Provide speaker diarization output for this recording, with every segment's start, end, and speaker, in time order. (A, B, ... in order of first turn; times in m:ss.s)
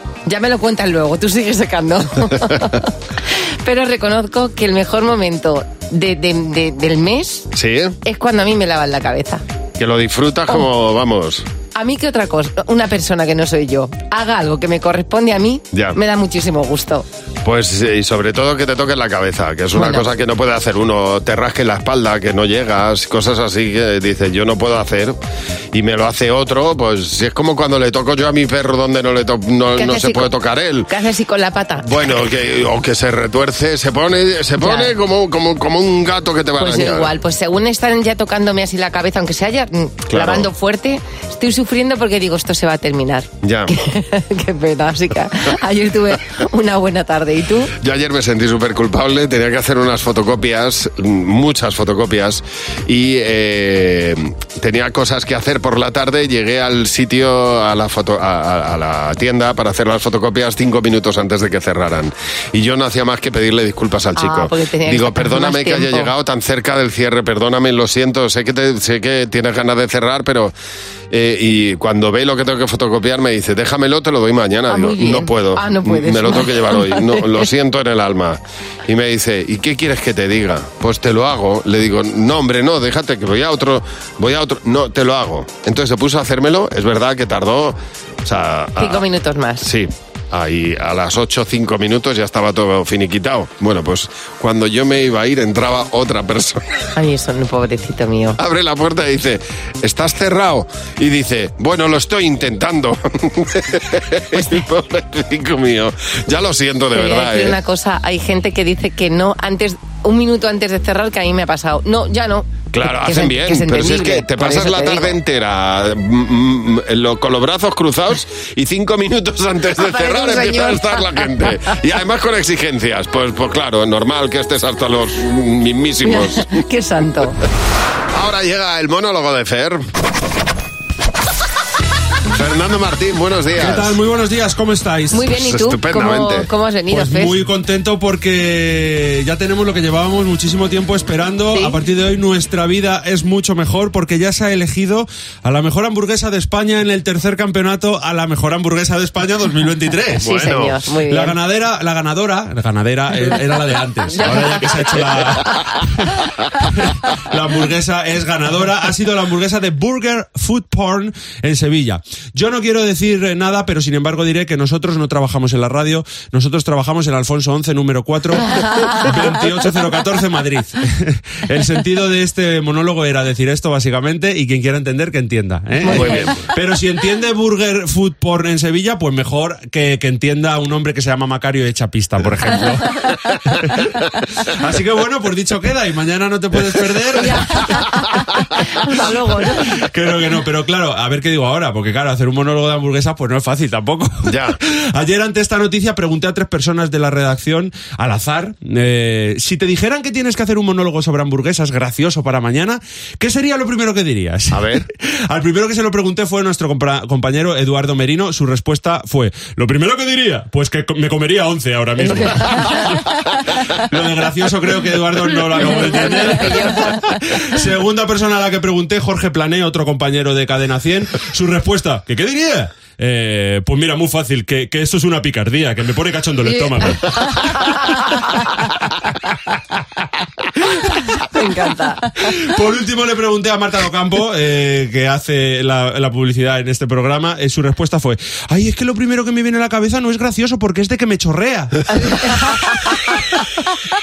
0:00.2-0:02.9 A
0:03.6-0:07.5 A
0:07.5-0:08.0 B
0:08.0-0:09.4 A
0:09.8-0:11.4 B
0:11.7-0:17.0 A
0:15.7-0:16.0 B
0:17.4-0:25.2 B
0:19.7-0:20.1 A
0:25.7-0:30.9 B
0:29.8-0:30.3 A
0:30.9-0:32.1 A
0:31.8-0:37.1 B
0:34.6-0:34.9 A
0:36.6-0:47.7 A
0:40.1-0:40.5 B
0:43.4-0:43.7 B
0:47.8-1:10.5 B
1:04.2-1:06.1 A
1:11.1-1:29.0 B
1:14.7-1:17.4 A
1:28.8-1:29.7 A
1:29.6-1:36.6 B
1:36.9-1:38.4 A
1:38.4-1:47.6 B
1:46.9-1:55.1 A
1:52.7-2:06.4 B
1:59.8-2:01.5 A
2:06.0-2:07.4 A
2:08.1-2:09.9 B
2:12.3-2:14.0 B
2:13.6-2:15.3 C
2:15.1-2:17.4 A
2:15.3-2:16.5 B
2:16.9-2:30.3 C
2:21.5-2:21.8 A
2:30.2-2:30.7 B
2:30.2-2:31.4 A
2:31.1-3:07.6 C
2:34.1-2:35.8 A
2:55.9-2:56.3 A
2:55.9-2:56.3 B
3:07.2-3:09.6 A
3:09.5-3:32.9 C
3:14.3-3:14.6 B
3:24.5-3:24.8 B
3:32.0-3:32.8 A
3:33.9-3:47.6 C
3:35.6-3:37.0 A
3:47.3-3:48.3 A
3:51.2-3:52.1 A
3:52.2-4:02.5 C
4:02.0-4:03.0 A